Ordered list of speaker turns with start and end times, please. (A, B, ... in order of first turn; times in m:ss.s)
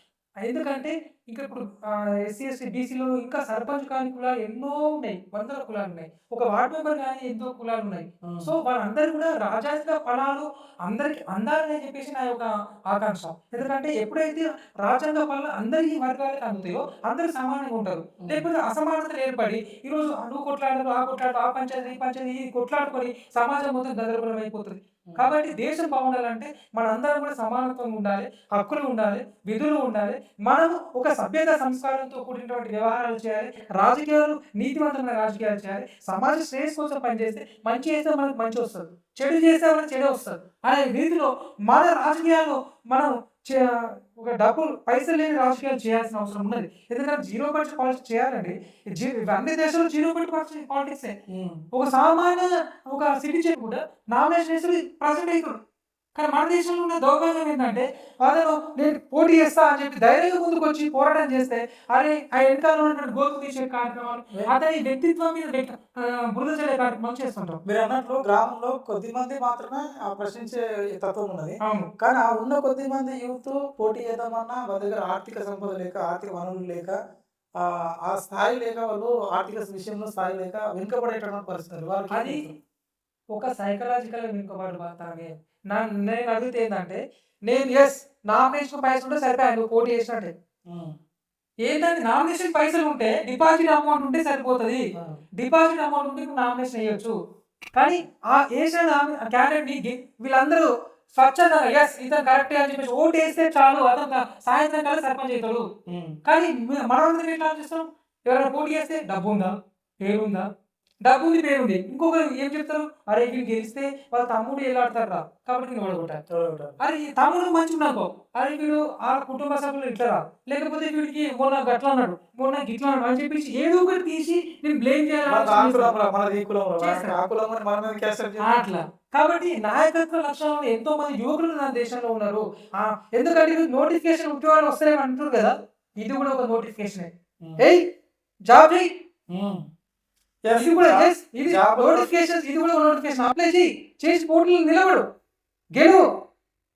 0:00.4-0:51.2 A
0:08.2-0:08.5 B
0:18.2-0:18.4 B
0:51.3-0:51.6 B
0:51.7-0:55.6 A
0:56.2-1:07.6 A
1:07.6-1:17.0 B
1:11.6-1:11.9 A
1:17.6-1:22.6 B
1:22.1-1:22.4 A
1:23.3-1:30.3 A
1:30.7-1:31.0 B
1:31.6-1:34.8 A
1:35.4-1:37.2 A
1:37.7-1:45.7 A
1:45.9-1:46.2 B
1:46.2-1:50.5 A
1:51.0-1:56.2 A
1:56.3-1:56.8 B
1:56.8-2:06.0 A
2:05.3-2:08.6 B
2:06.8-2:07.2 A
2:08.4-2:17.8 A
2:18.5-2:18.9 A
2:19.3-2:19.7 B
2:20.4-2:22.1 B
2:20.5-2:25.0 A
2:25.7-2:26.1 A